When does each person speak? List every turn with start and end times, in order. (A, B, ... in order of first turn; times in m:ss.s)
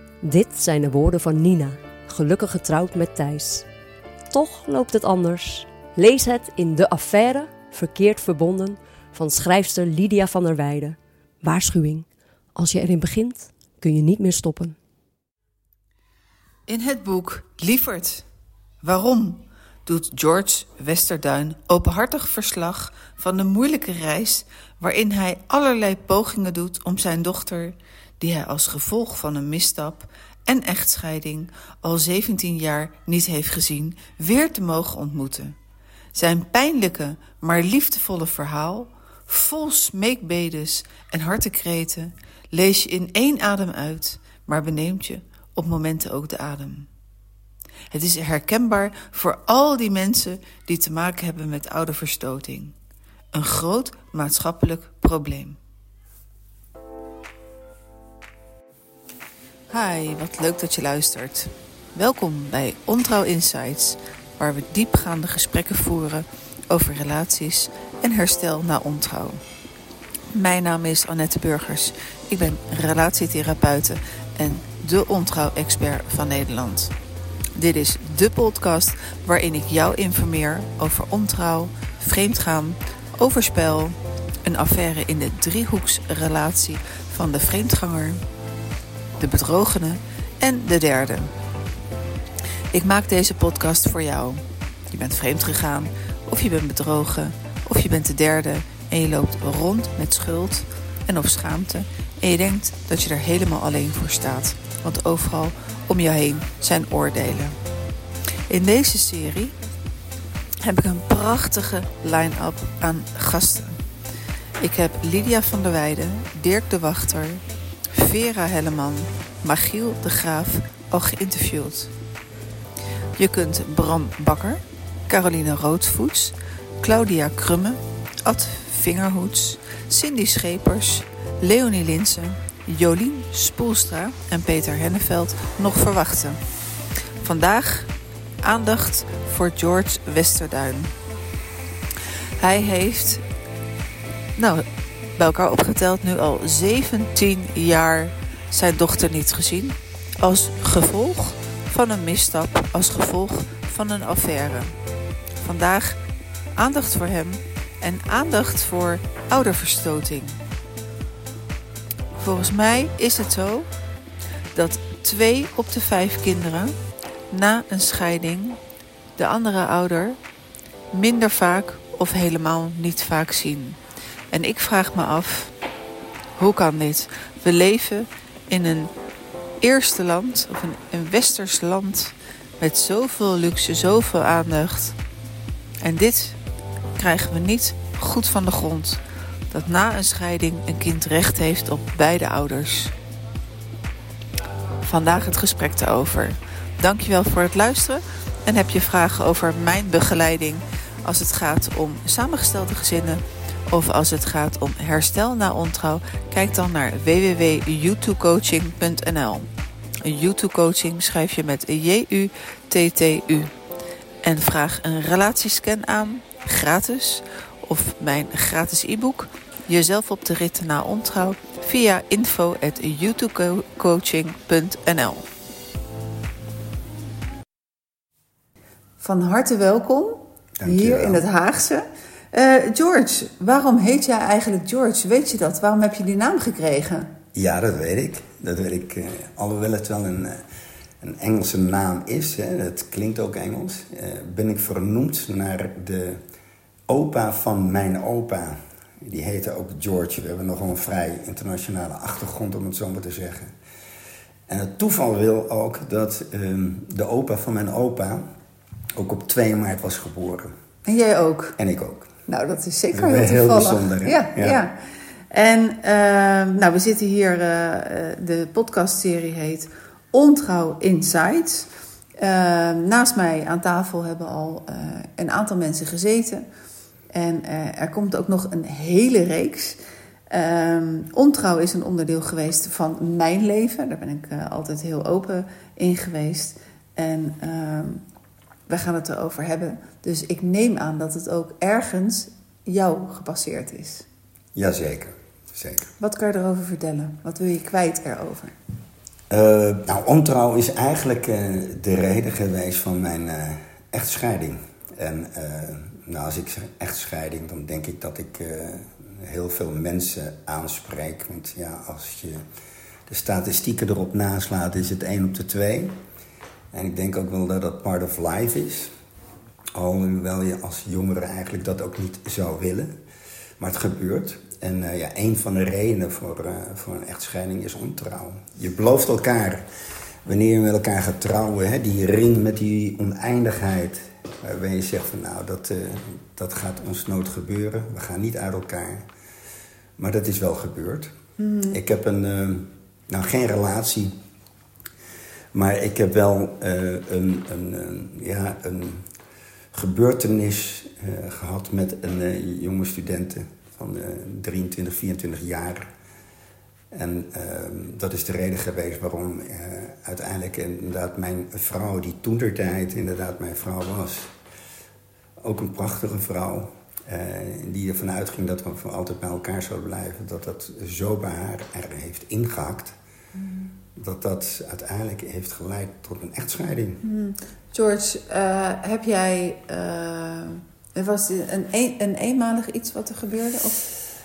0:00.2-0:03.6 A
0:04.3-0:14.8 A
0:16.7-0:18.2 B
0:18.8-0:35.6 B
0:36.1-0:46.9 B
0:47.9-0:52.7 B
0:53.3-0:55.6 B
0:59.7-1:09.4 B
1:10.3-1:16.9 B
1:17.5-1:28.2 B
1:29.2-1:31.3 B
1:32.7-1:47.6 B
1:48.5-1:49.5 B
1:50.6-1:53.8 B
1:54.6-2:01.9 B
2:03.2-2:16.4 B
2:17.2-2:17.9 B
2:18.4-2:20.9 B
2:22.4-2:23.2 B
2:24.4-2:24.6 B
2:25.2-2:34.7 B
2:35.4-2:36.0 B
2:36.6-2:40.4 B
2:42.1-2:43.7 B
2:44.5-2:46.7 B
2:47.3-2:48.6 B
2:49.2-2:50.2 B
2:50.9-2:53.8 B
2:54.3-2:55.5 B
2:56.4-2:58.9 B
2:59.6-3:05.0 B
3:05.8-3:06.4 B
3:06.9-3:12.9 B
3:14.8-3:29.5 B
3:30.0-3:33.5 B
3:34.2-3:45.3 B
3:49.0-3:57.1 B
3:50.6-3:51.2 C
3:57.3-4:00.4 C
4:01.0-4:06.2 C
4:06.9-4:13.5 C
4:14.5-4:18.2 C
4:18.9-4:20.5 C
4:20.8-4:21.6 B
4:21.6-4:22.1 C
4:22.3-4:24.8 B
4:22.9-4:24.6 C
4:25.3-4:36.4 B
4:37.1-4:39.8 B
4:40.3-4:48.0 B
4:48.7-4:54.0 B
4:54.5-4:55.9 C
4:56.0-4:58.5 B
4:59.3-5:12.4 C
5:13.1-5:15.9 C
5:16.7-5:18.9 C
5:19.7-5:22.9 C
5:23.6-5:29.6 C
5:30.2-5:39.0 C
5:40.0-5:41.1 C
5:41.4-5:41.8 B
5:41.7-5:44.1 C
5:45.5-5:49.0 C
5:49.7-5:55.9 C
5:56.9-6:04.3 C
6:05.4-6:12.9 C
6:13.4-6:13.7 B
6:13.9-6:17.0 C
6:17.0-6:23.8 B